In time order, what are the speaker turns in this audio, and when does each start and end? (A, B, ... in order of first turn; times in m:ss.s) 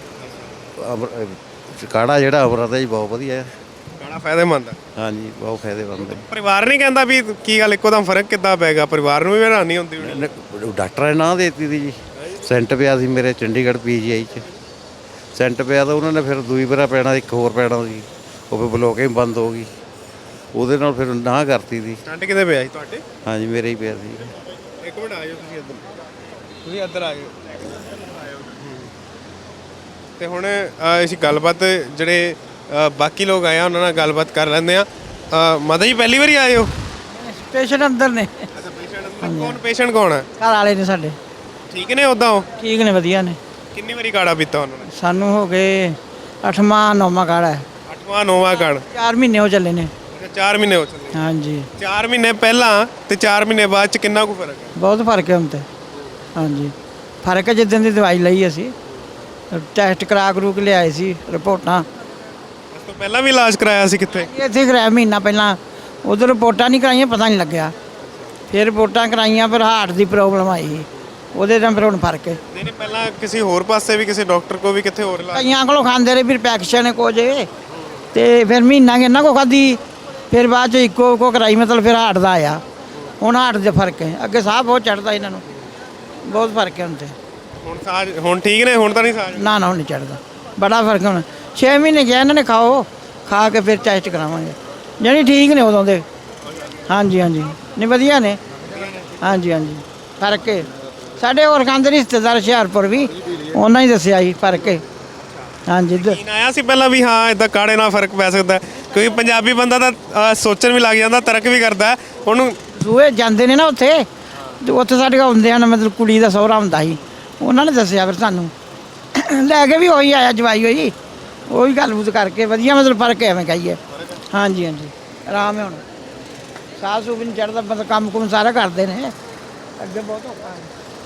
0:00.2-0:00.6 A
0:00.8-0:03.5 B
0:04.0-0:04.8 A
0:05.0-0:06.3 B
0:06.0-0:10.3 A
0:10.0-0:14.5 B
0:15.3-0:19.7 B
0:20.5-0:22.0 B
0:22.0-0:23.0 A
0:23.2-0:24.3 B
0:24.8-0:25.8 A
0:26.6-0:27.4 A
0:28.4-0:28.9 A
0:30.2-0:36.7 A
0:37.2-0:38.3 C
0:38.5-0:40.2 A
0:39.2-0:39.6 C
0:40.4-0:41.2 C
0:41.7-0:42.5 A
0:42.6-0:43.4 C
0:43.7-0:44.9 A
0:44.8-0:47.6 C
0:47.9-0:48.8 A
0:48.9-0:49.9 C
0:50.1-0:51.2 A
0:51.1-0:51.7 C
0:51.8-0:54.7 A
0:54.8-0:55.6 C
0:56.3-0:58.7 C
0:59.5-1:01.8 C
1:02.7-1:04.3 A
1:04.1-1:07.7 C
1:08.5-1:12.4 C
1:12.5-1:15.5 A
1:15.3-1:17.5 C
1:18.1-1:19.8 C
1:20.3-1:22.6 C
1:23.2-1:25.4 C
1:26.3-1:27.1 C
1:27.6-1:29.5 A
1:29.3-1:36.0 C
1:36.9-1:38.4 C
1:38.7-1:39.1 A
1:39.2-1:44.8 C
1:45.2-1:52.6 A
1:45.7-1:46.2 C
1:52.7-1:54.0 C
1:54.6-1:58.5 C
1:59.1-2:00.9 C
2:01.5-2:03.8 C
2:04.3-2:05.8 C
2:06.8-2:09.1 C
2:09.8-2:10.7 C